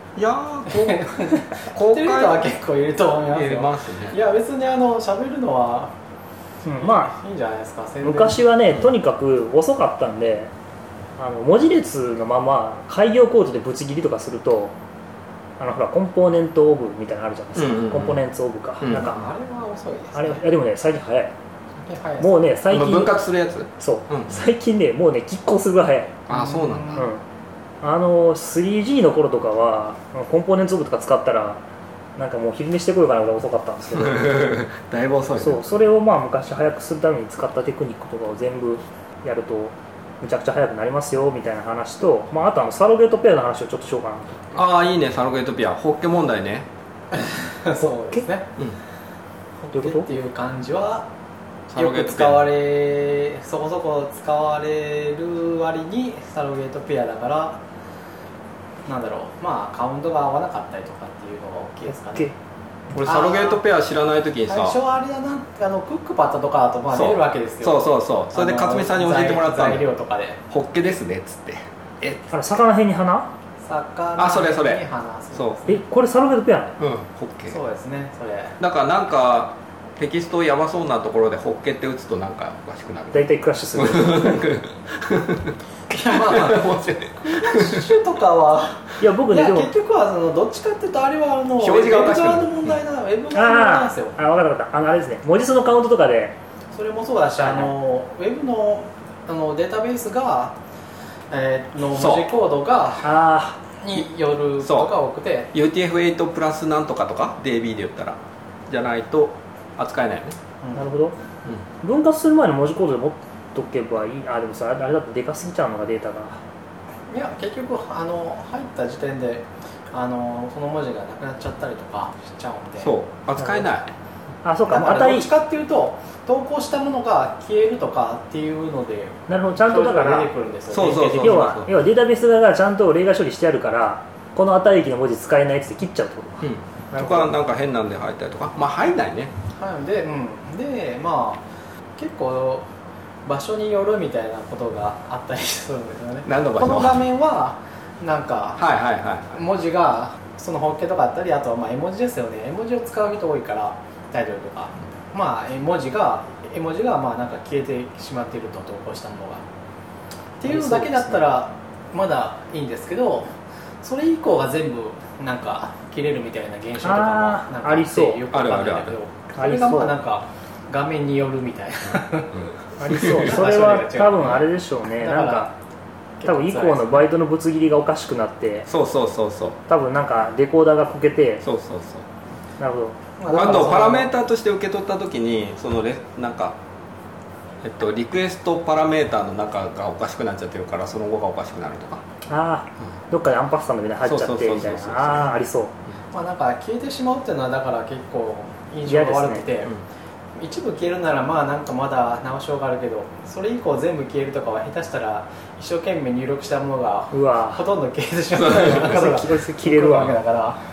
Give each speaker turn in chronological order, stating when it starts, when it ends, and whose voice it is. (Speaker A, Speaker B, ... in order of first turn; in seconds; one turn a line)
Speaker A: 0.2-2.5
Speaker B: 0.7-5.9
Speaker A: 3.3-4.2
Speaker C: 6.7-7.1
Speaker B: 6.8-8.5
Speaker C: 8.0-10.5
Speaker C: 11.2-14.7
Speaker C: 15.6-19.3
Speaker A: 17.6-18.2
Speaker A: 18.8-19.1
Speaker B: 18.9-20.4
Speaker C: 20.1-21.3
Speaker B: 21.8-22.4
Speaker C: 22.2-23.1
Speaker A: 22.7-24.3
Speaker C: 23.8-26.2
Speaker A: 26.3-27.1
Speaker B: 26.4-27.0
Speaker C: 26.9-27.2
Speaker C: 27.8-31.6
Speaker C: 32.2-34.3
Speaker A: 34.0-35.7
Speaker C: 35.4-44.4
Speaker A: 44.5-46.7
Speaker B: 47.1-48.5
Speaker B: 49.6-51.1
Speaker C: 49.7-50.1
Speaker A: 51.7-52.5
Speaker B: 51.8-57.6
Speaker B: 58.9-62.3
Speaker A: 62.9-64.8
Speaker B: 63.0-63.6
Speaker B: 64.5-70.4
Speaker A: 66.9-69.9
Speaker A: 70.5-72.2
Speaker C: 72.3-73.3
Speaker B: 73.6-75.8
Speaker A: 74.2-74.8
Speaker A: 75.3-75.6
Speaker C: 75.7-76.8
Speaker A: 76.8-77.6
Speaker B: 77.5-78.6
Speaker A: 78.6-87.9
Speaker C: 83.1-84.4
Speaker B: 85.9-94.2
Speaker C: 89.0-89.7
Speaker A: 91.6-92.6
Speaker C: 93.3-96.4
Speaker B: 96.7-100.6
Speaker C: 97.4-97.7
Speaker B: 101.3-103.2
Speaker A: 102.0-102.3
Speaker C: 103.0-103.6
Speaker B: 103.8-105.5
Speaker A: 104.6-104.9
Speaker A: 105.5-108.2
Speaker A: 108.7-110.4
Speaker C: 110.8-111.2
Speaker C: 111.8-116.4
Speaker B: 117.1-122.9
Speaker A: 122.8-123.9
Speaker C: 124.4-125.3
Speaker B: 124.7-131.6
Speaker C: 129.3-130.3
Speaker A: 130.7-131.7
Speaker C: 130.9-137.3
Speaker A: 136.4-139.3
Speaker B: 139.6-141.4
Speaker B: 142.0-142.7
Speaker B: 143.2-148.6
Speaker A: 146.2-147.0
Speaker A: 148.6-149.4
Speaker B: 149.3-159.4
Speaker B: 160.4-172.4
Speaker C: 160.5-161.2
Speaker C: 166.8-168.3
Speaker A: 168.3-168.9
Speaker C: 169.3-170.0
Speaker C: 172.8-175.5
Speaker B: 173.0-175.5
Speaker B: 176.2-177.1
Speaker C: 176.2-178.7
Speaker A: 178.7-179.6
Speaker C: 179.7-181.4
Speaker A: 181.4-182.0
Speaker C: 182.6-183.0
Speaker B: 183.2-184.1
Speaker A: 183.3-186.6
Speaker A: 187.6-192.0
Speaker C: 192.3-195.7
Speaker A: 194.0-195.3
Speaker B: 196.1-199.7
Speaker C: 198.9-199.5
Speaker B: 200.3-210.6
Speaker C: 207.1-207.6
Speaker C: 208.6-210.2